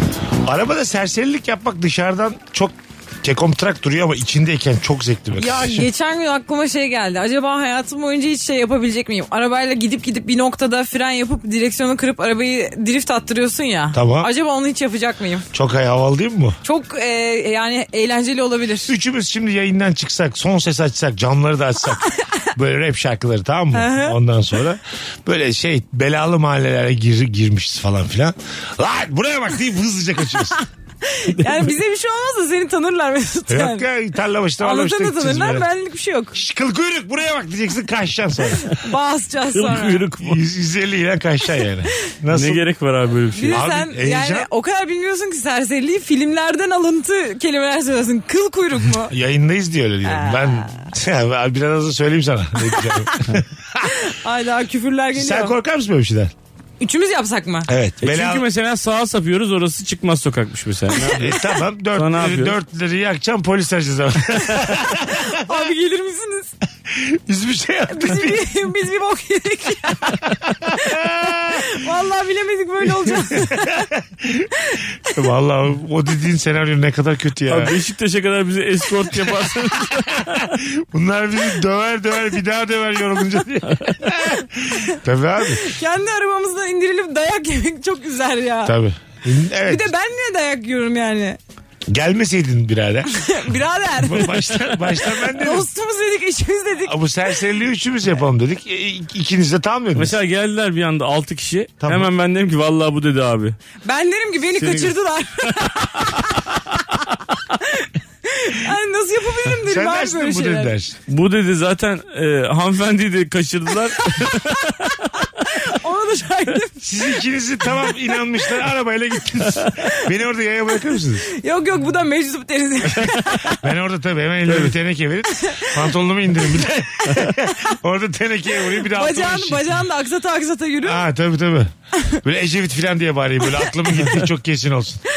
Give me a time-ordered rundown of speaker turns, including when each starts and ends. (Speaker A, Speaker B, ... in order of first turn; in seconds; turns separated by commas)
Speaker A: 0.4-5.8, Speaker B: 5.4-15.4, Speaker A: 13.9-14.3, Speaker A: 15.5-16.6, Speaker B: 16.6-18.9, Speaker A: 18.9-30.6, Speaker B: 23.7-24.1, Speaker B: 31.1-33.9, Speaker A: 33.5-35.7, Speaker B: 34.6-36.4, Speaker A: 36.3-38.6, Speaker B: 38.7-40.0, Speaker C: 39.5-40.4, Speaker A: 40.2-42.6, Speaker C: 42.3-43.6, Speaker B: 43.4-49.1, Speaker A: 43.5-44.5, Speaker A: 49.1-53.9, Speaker B: 50.0-50.9, Speaker B: 53.8-55.5, Speaker A: 55.1-56.3, Speaker B: 56.8-57.7, Speaker A: 57.7-58.4, Speaker C: 58.0-61.3, Speaker A: 61.1-65.4, Speaker C: 62.0-62.5, Speaker B: 65.4-66.5, Speaker A: 66.9-68.4, Speaker B: 67.9-73.9, Speaker A: 70.7-71.6, Speaker A: 73.0-74.5, Speaker A: 75.1-77.7, Speaker C: 77.5-80.5, Speaker A: 80.5-85.7, Speaker B: 85.5-88.7, Speaker A: 88.6-89.9, Speaker B: 89.7-91.4, Speaker A: 91.9-93.2, Speaker B: 93.1-97.0, Speaker A: 94.0-95.7, Speaker A: 96.8-100.2, Speaker C: 99.9-103.6, Speaker A: 101.8-102.1, Speaker B: 103.8-106.1, Speaker C: 104.6-105.0, Speaker B: 107.6-110.7, Speaker A: 109.5-111.0, Speaker C: 111.1-115.0, Speaker B: 115.5-116.8, Speaker A: 116.8-121.2, Speaker B: 121.3-123.5, Speaker A: 123.6-129.8, Speaker B: 128.9-131.0, Speaker A: 130.8-131.7, Speaker A: 132.2-135.0